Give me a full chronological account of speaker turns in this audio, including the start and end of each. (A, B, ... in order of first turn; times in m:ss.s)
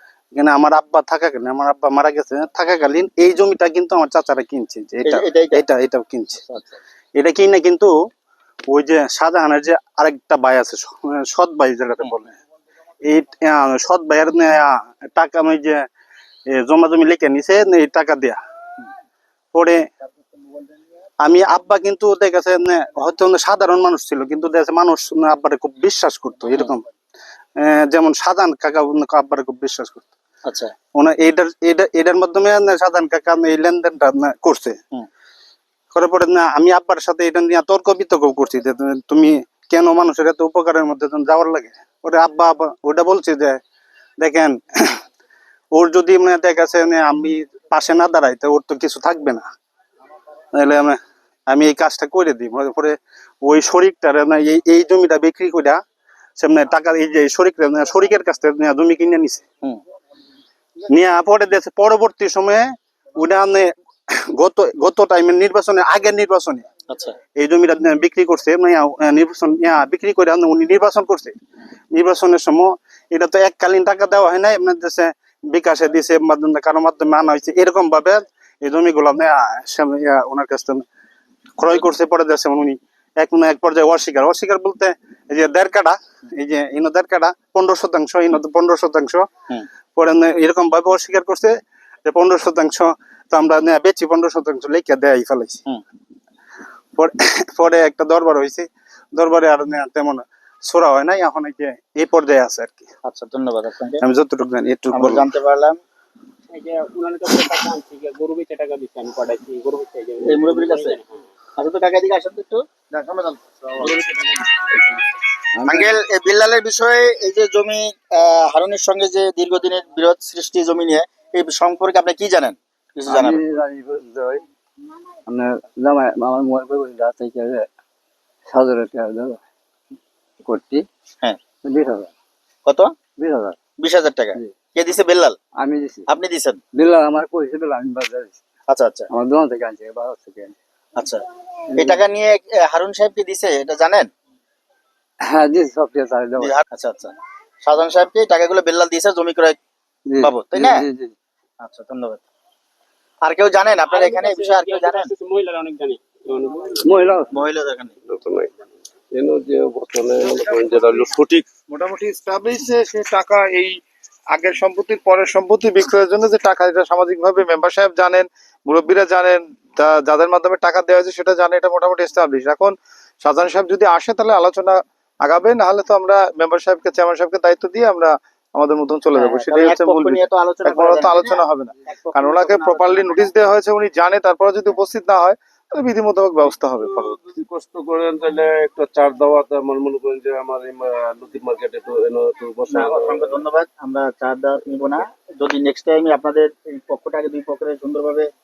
0:00.3-0:06.4 A
0:05.0-0:05.6 B
0:06.5-0:06.8 B
0:07.2-0:07.9 A
0:08.7-0:12.4 A
0:13.0-0:15.8 A
0:16.5-0:18.4 A
0:19.5-0:19.8 A
0:21.2-0:26.8 A
0:27.6-0:30.1 A
0:30.4-0:30.7 B
0:30.9-0:34.8 A
0:35.9-0:43.6 A
0:44.2-0:45.0 A
0:45.7-0:49.4 A
0:50.5-0:51.0 A
0:51.5-0:55.8 A
0:56.4-0:59.4 A
1:00.9-1:03.7 A
1:04.3-1:06.6 A
1:06.9-1:07.2 B
1:07.4-1:11.3 A
1:11.9-1:20.8 A
1:21.6-1:29.3 A
1:30.0-1:31.5 A
1:32.0-1:35.6 A
1:37.0-1:42.9 A
1:43.0-1:44.0 B
1:44.0-1:45.2 A
1:44.9-1:45.8 B
1:46.5-1:51.2 C
1:50.2-1:51.0 B
1:51.6-1:54.5 B
1:55.6-1:55.9 D
1:55.6-2:03.4 B
2:03.1-2:04.4 D
2:05.3-2:07.7 D
2:08.5-2:09.4 D
2:10.4-2:10.9 D
2:11.6-2:12.1 D
2:12.6-2:12.9 B
2:13.2-2:13.6 D
2:13.8-2:15.4 B
2:15.6-2:16.0 D
2:16.1-2:16.6 B
2:16.7-2:18.4 D
2:18.7-2:19.1 B
2:19.1-2:20.5 D
2:21.0-2:21.2 B
2:21.7-2:24.1 B
2:25.2-2:26.5 D
2:26.4-2:29.6 B
2:30.1-2:31.1 D
2:30.2-2:30.8 B
2:31.6-2:32.2 B
2:33.2-2:35.1 B
2:33.9-2:36.9 C
2:37.3-2:37.9 B
2:38.1-2:38.5 E
2:39.1-2:41.5 E
2:40.2-2:41.1 F
2:41.7-2:43.8 F
2:44.3-3:07.2 F
2:59.1-3:03.3 B
3:06.8-3:13.4 E
3:12.7-3:18.3 B